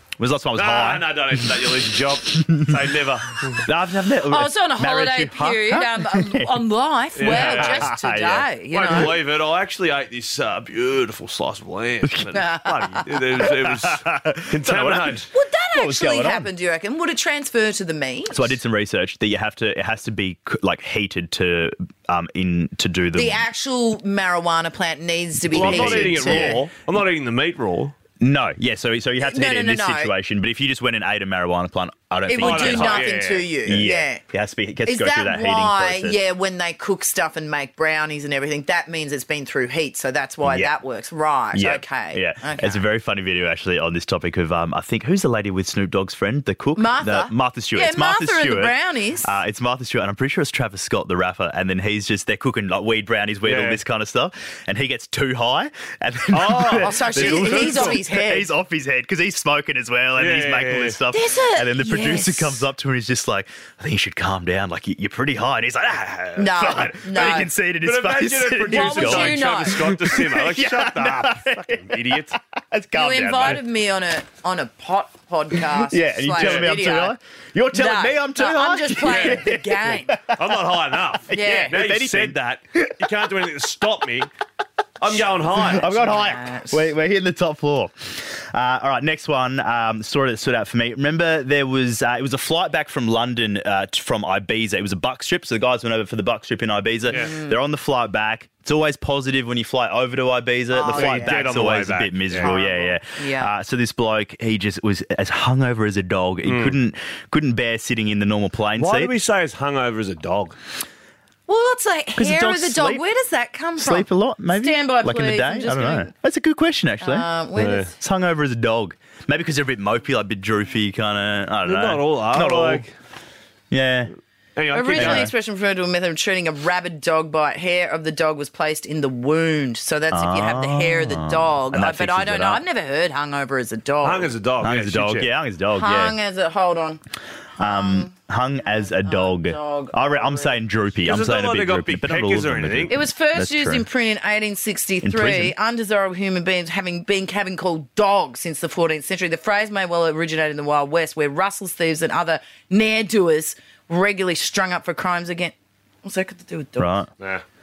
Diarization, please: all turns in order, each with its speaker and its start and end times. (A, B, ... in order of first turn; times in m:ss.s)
0:00.2-0:02.8 A
0:00.6-0:03.6 B
0:03.5-0:06.6 A
0:04.2-0:09.2 C
0:07.2-0:07.9 B
0:07.2-0:09.1 A
0:08.7-0:15.3 B
0:12.0-0:12.3 A
0:12.3-0:13.0 C
0:13.4-0:16.5 A
0:15.3-0:18.5 C
0:18.3-0:23.4 A
0:23.1-0:26.6 C
0:25.4-0:26.6 A
0:25.5-0:28.0 B
0:28.2-0:36.2 A
0:29.2-0:30.1 C
0:32.3-0:34.2 C
0:32.4-0:33.5 B
0:34.8-0:42.9 C
0:40.4-0:40.7 A
0:41.5-1:13.6 A
0:46.8-0:49.3 C
0:53.4-0:53.8 B
0:56.3-0:58.0 B
0:56.8-0:58.5 C
1:00.2-1:01.0 B
1:01.1-1:02.6 C
1:06.4-1:07.5 C
1:07.8-1:12.4 B
1:08.7-1:09.8 C
1:12.9-1:17.2 C
1:15.5-1:23.1 A
1:16.4-1:16.8 B
1:17.7-1:20.2 C
1:19.0-1:19.5 B
1:20.3-1:24.3 B
1:21.3-1:21.8 C
1:25.0-1:25.9 B
1:25.5-1:49.1 A
1:25.6-1:26.9 C
1:37.1-1:37.6 C
1:40.7-1:41.5 C
1:40.9-1:42.6 B
1:42.4-1:43.5 C
1:46.4-1:46.8 B
1:48.8-1:50.6 B
1:51.5-1:56.1 C
1:52.2-1:53.0 A
1:53.8-1:57.3 A
1:57.0-1:57.9 C
1:57.6-1:57.9 B
1:58.0-2:02.8 A
2:01.6-2:02.9 B
2:03.7-2:04.1 A
2:04.6-2:05.3 B
2:04.7-2:14.3 C
2:04.9-2:05.3 A
2:10.1-2:12.6 A
2:14.0-2:15.3 B
2:14.6-2:16.2 A
2:15.7-2:17.0 C
2:17.6-2:18.1 C
2:17.6-2:23.9 A
2:18.8-2:20.6 C
2:21.0-2:22.9 B
2:22.9-2:37.0 C
2:25.0-2:25.6 A
2:36.8-2:37.1 A